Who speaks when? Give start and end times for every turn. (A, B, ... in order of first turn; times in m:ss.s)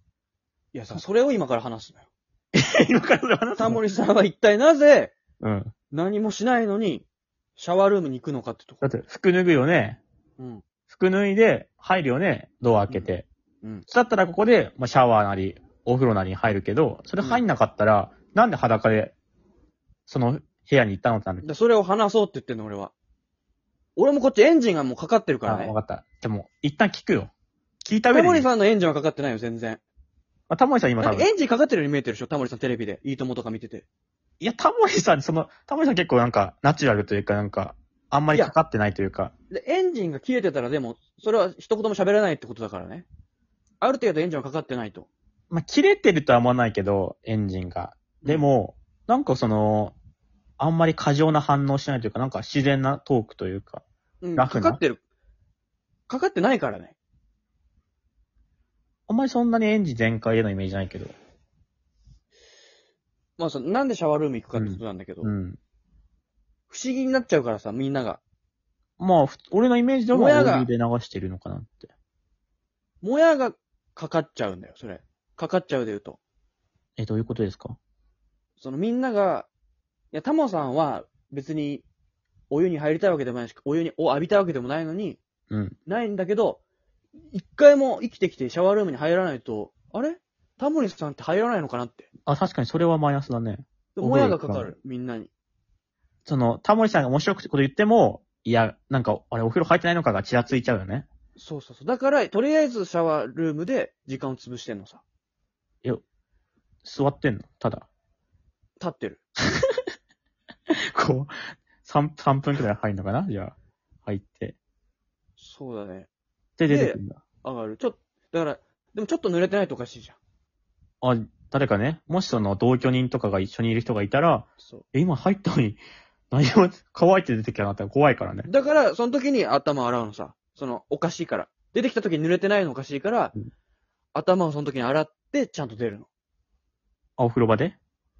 0:00.7-0:02.0 A
0:02.5-0:03.8 B
0:03.6-0:05.2 A
0:05.4-0:05.7 B
0:05.9-0:07.0 A
0:07.6-0:08.8 A
0:08.8-0:10.0 B
0:10.4-0:10.6 A
0:10.9-0:13.2 B
0:13.9-0:19.1 B
0:17.2-0:17.4 A
0:20.1-0:21.4 B
0:21.4-0:22.9 A
0:24.0-0:25.7 A
0:25.5-0:27.3 B
0:27.8-0:28.5 B
0:28.1-0:29.8 A
0:30.5-0:31.3 B
0:31.0-0:33.8 A
0:34.4-0:39.3 B
0:39.5-0:43.0 A
0:43.8-0:45.1 A
0:45.5-0:49.9 B
0:50.6-0:53.8 B
0:54.2-0:55.0 A
0:54.4-0:54.8 B
0:56.1-0:57.0 A
0:59.1-1:01.1 B
1:03.4-1:05.3 A
1:04.6-1:05.6 B
1:06.7-1:08.2 A
1:09.0-1:11.9 B
1:10.1-1:10.7 A
1:13.0-1:16.2 A
1:17.0-1:17.8 B
1:18.6-1:19.5 A
1:20.1-1:21.8 A
1:22.5-1:25.2 A
1:25.5-1:25.8 B
1:25.9-1:26.6 A
1:27.3-1:32.1 A
1:32.2-1:34.7 B
1:34.0-1:35.3 A
1:36.2-1:41.1 B
1:41.4-1:45.0 A
1:46.8-1:47.9 B
1:48.8-1:49.2 A
1:50.7-1:53.5 B
1:54.0-1:54.6 B
1:55.4-1:56.1 A
1:56.6-1:57.2 B
1:56.7-2:00.2 A
2:01.0-2:08.5 B
2:08.5-2:13.3 A
2:14.1-2:16.1 A
2:17.2-2:17.8 B